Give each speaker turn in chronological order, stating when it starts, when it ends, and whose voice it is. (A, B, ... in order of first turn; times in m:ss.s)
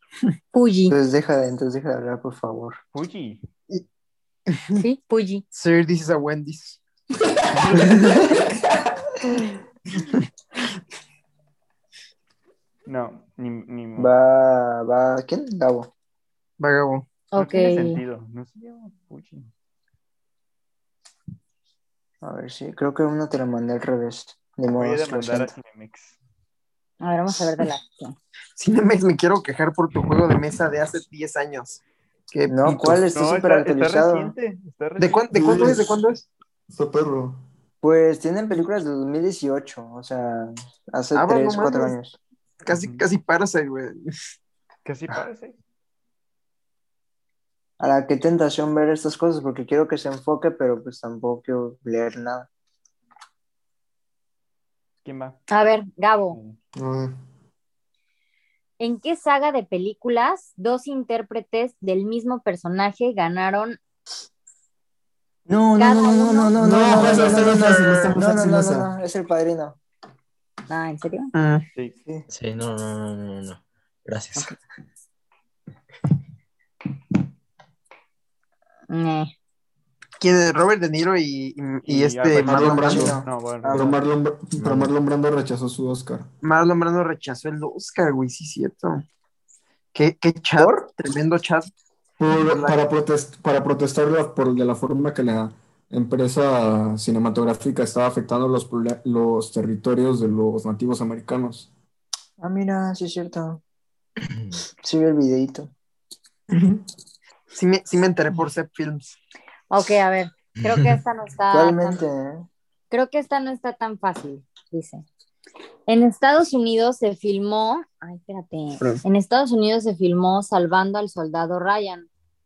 0:00.5-0:01.0 A
0:00.9-0:02.8 B
0:02.9-0:03.4 C
0:04.8-0:05.4 A
0:05.5-0:06.8 D
0:07.3-0:08.4 E
0:07.5-0:07.9 C
0:12.9-0:14.1 C
0:14.0-0:15.9 B
0:16.6-0:17.1 D
0:17.3-0:18.0 A
0:17.4-0:19.5 C
0:22.2-0:25.5 B
0:24.8-0:26.2 C
0:27.0-0:28.2 A
0:28.6-0:33.0 D
0:32.5-0:34.3 B
0:33.1-0:35.4 C
0:35.0-0:36.3 D
0:35.3-0:35.8 E
0:36.7-0:37.4 E
0:37.8-0:42.2 B
0:41.1-0:42.0 D
0:42.6-0:44.0 D
0:42.7-0:43.0 C
0:44.8-0:45.6 C
0:47.8-0:52.5 B
0:55.0-0:55.4 C
0:55.5-0:56.4 A
0:56.3-0:56.6 C
0:56.8-0:57.2 E
0:58.8-1:03.8 A
1:05.5-1:09.8 B
1:05.8-1:06.6 A
1:06.6-1:08.9 E
1:06.9-1:08.2 F
1:10.7-1:11.3 A
1:11.4-1:11.7 D
1:12.3-1:14.5 F
1:18.9-1:19.3 A
1:20.2-1:23.0 D
1:21.8-1:24.0 C
1:22.4-1:26.3 E
1:22.4-1:23.8 B
1:26.4-1:29.0 D
1:29.9-1:31.7 D
1:30.6-1:30.9 B
1:32.2-1:41.7 E
1:32.5-1:32.8 D
1:42.4-1:43.6 B
1:44.8-1:45.7 B
1:47.5-1:49.2 D
1:49.7-1:52.1 A
1:50.6-1:51.0 F
1:51.5-1:52.5 B
1:52.9-1:55.1 A
1:55.9-2:02.1 A
1:58.8-1:59.0 D